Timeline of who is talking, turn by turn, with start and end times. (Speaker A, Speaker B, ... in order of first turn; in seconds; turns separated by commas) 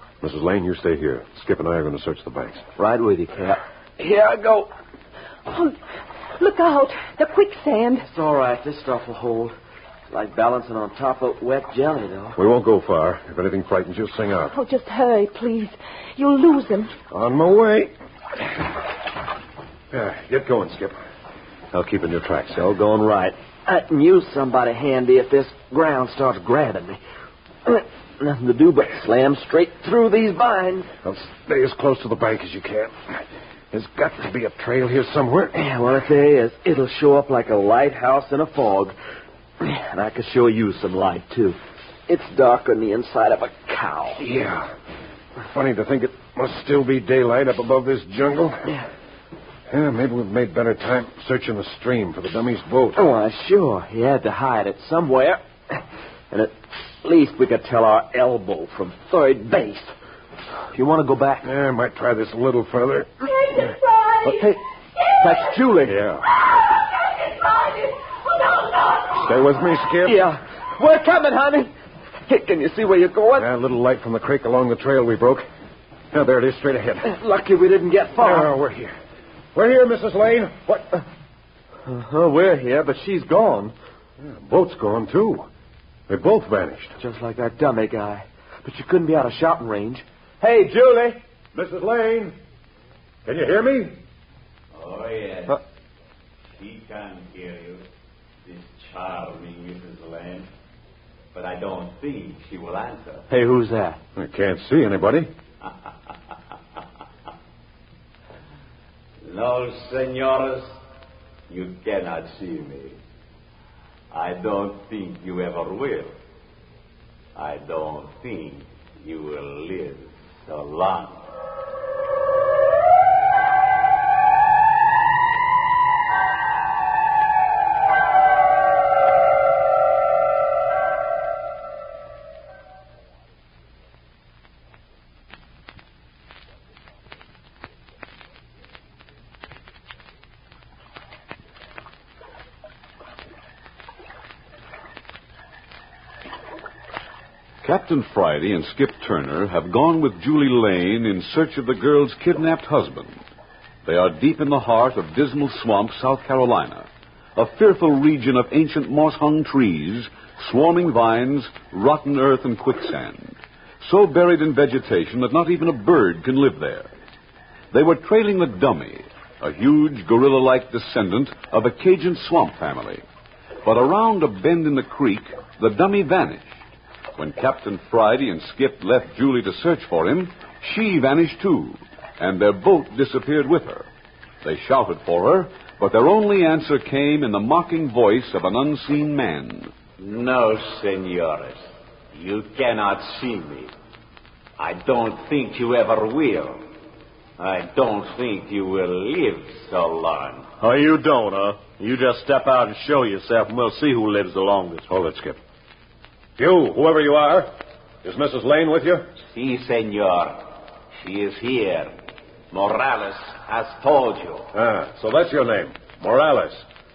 Speaker A: 0.2-2.6, Speaker B: 2.8-4.7, Speaker C: 5.5-5.8, Speaker C: 6.4-8.1, Speaker B: 8.0-9.6, Speaker B: 10.1-12.4, Speaker A: 12.4-14.5, Speaker C: 14.5-16.9, Speaker A: 17.1-17.9, Speaker A: 19.9-21.0, Speaker A: 21.7-22.7, Speaker B: 22.6-27.0, Speaker B: 27.6-30.9, Speaker A: 31.0-35.6, Speaker B: 35.5-39.0, Speaker B: 39.6-44.2, Speaker A: 44.2-44.7, Speaker A: 45.4-48.7, Speaker A: 49.7-53.0, Speaker B: 53.0-59.9, Speaker B: 60.7-61.5, Speaker A: 61.4-63.3, Speaker C: 63.3-64.5, Speaker B: 64.2-64.6, Speaker B: 65.2-66.0, Speaker A: 65.8-66.2, Speaker C: 67.2-69.2, Speaker A: 69.2-70.2, Speaker B: 70.0-71.7, Speaker B: 72.3-73.5, Speaker A: 73.4-75.5, Speaker A: 76.1-77.1, Speaker B: 77.0-78.5, Speaker A: 78.2-79.0, Speaker A: 79.5-81.0, Speaker B: 81.9-83.7, Speaker A: 84.2-85.5, Speaker A: 86.1-87.0, Speaker B: 87.0-91.2, Speaker A: 91.5-92.4, Speaker A: 93.2-94.0, Speaker D: 94.7-95.6, Speaker D: 96.5-97.8, Speaker D: 98.5-100.5, Speaker D: 101.3-103.3, Speaker B: 103.3-104.0, Speaker A: 104.2-105.3, Speaker D: 109.2-110.8, Speaker D: 111.5-113.0, Speaker D: 114.1-116.1, Speaker D: 117.3-121.2, Speaker E: 147.6-153.2, Speaker E: 153.8-166.9, Speaker E: 167.7-173.0, Speaker E: 173.6-176.5, Speaker E: 177.2-183.9, Speaker E: 184.4-189.7, Speaker D: 190.0-193.7, Speaker D: 194.6-196.6, Speaker D: 197.4-200.5, Speaker B: 200.6-204.9, Speaker A: 204.9-205.4, Speaker A: 206.4-207.5, Speaker A: 208.0-209.1, Speaker D: 209.2-211.9, Speaker D: 212.5-214.5, Speaker A: 214.5-216.7